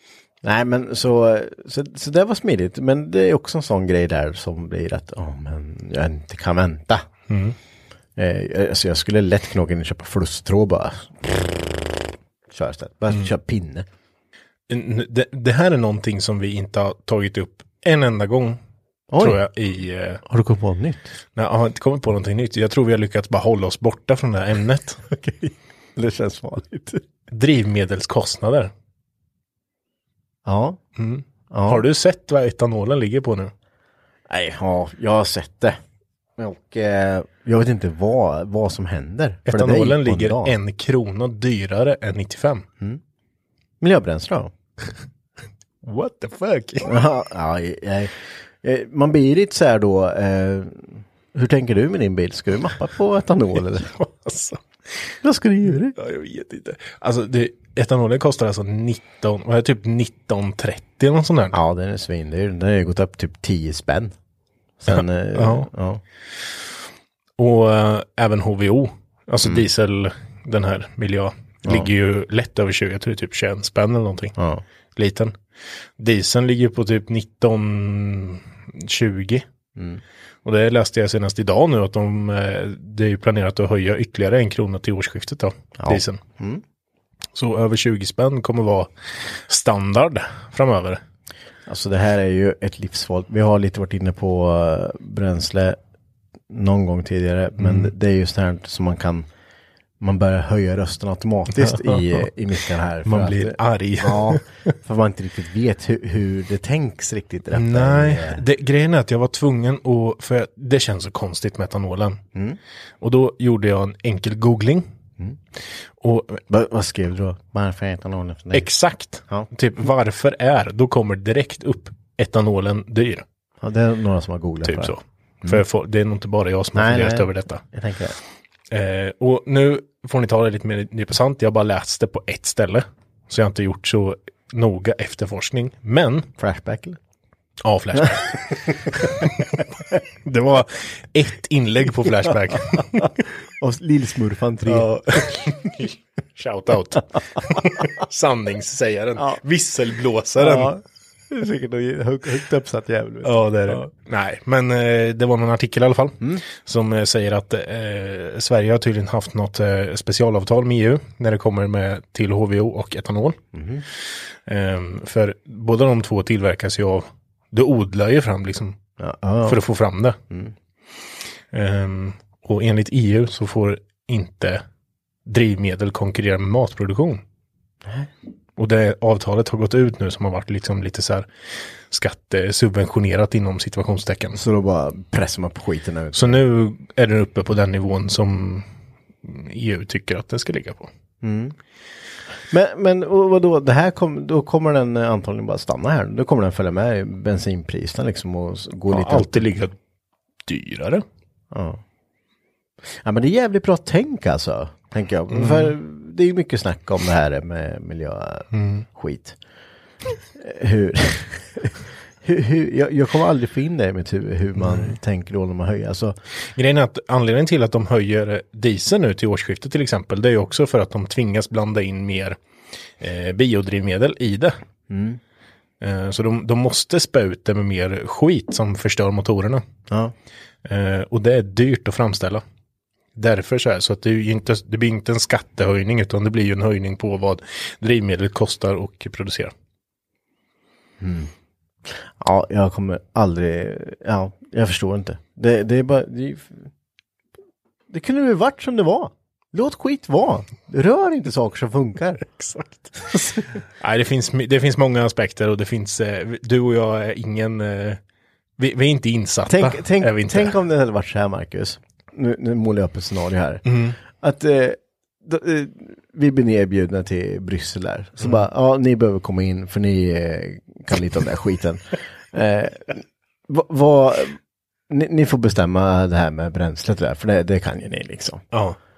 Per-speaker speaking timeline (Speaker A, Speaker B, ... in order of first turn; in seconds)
Speaker A: 0.4-7.1, 8.2-11.7, 12.5-13.8, 19.1-19.5, 20.3-21.1, 25.1-27.0, 30.5-30.8, 31.5-31.8, 34.3-35.8, 36.4-40.6, 43.8-44.5, 46.9-53.9, 55.2-56.0, 61.5-64.1, 64.8-66.0, 74.4-74.6, 79.8-80.0, 85.8-86.6, 91.7-95.8, 96.5-99.3, 100.0-108.4, 112.3-112.6, 116.5-118.7, 123.6-125.6, 126.8-128.2, 136.4-137.0, 138.1-139.1, 143.6-145.4, 150.4-153.9, 163.5-163.8, 169.0-169.6, 184.3-186.4, 191.2-191.6, 192.5-199.5, 201.5-201.8, 203.0-209.4, 210.4-216.2, 224.9-225.2, 241.0-241.3, 241.9-246.7, 247.9-252.3, 253.0-253.6, 259.5-274.4, 274.9-278.4
Speaker B: 7.3-7.6, 14.7-18.6, 19.2-20.2, 21.4-25.0, 27.3-28.7, 31.0-33.5, 39.5-42.7, 45.8-46.9, 53.6-55.1, 55.8-61.6, 64.9-65.7, 67.4-74.3, 75.0-75.4, 76.0-79.5, 80.4-86.2, 87.3-91.0, 97.6-97.9, 101.5-102.3, 103.0-104.5, 107.5-112.2, 113.0-114.9, 116.0-116.4, 118.5-123.2, 124.6-127.6, 128.7-136.3, 137.6-139.6, 140.2-143.2, 144.7-150.7, 153.2-163.4, 164.5-168.8, 169.4-170.2, 171.5-174.6, 175.2-177.2, 178.6-181.3, 181.9-184.4, 186.1-188.7, 189.2-190.9, 198.9-199.8, 200.5-201.1, 205.3-205.8, 208.5-208.9, 214.6-215.0, 216.5-222.4, 223.0-224.6, 225.8-229.6, 230.7-232.4, 233.2-239.5, 252.3-253.0, 253.8-258.0, 258.6-260.6, 263.6-264.0, 268.2-268.4, 278.5-278.8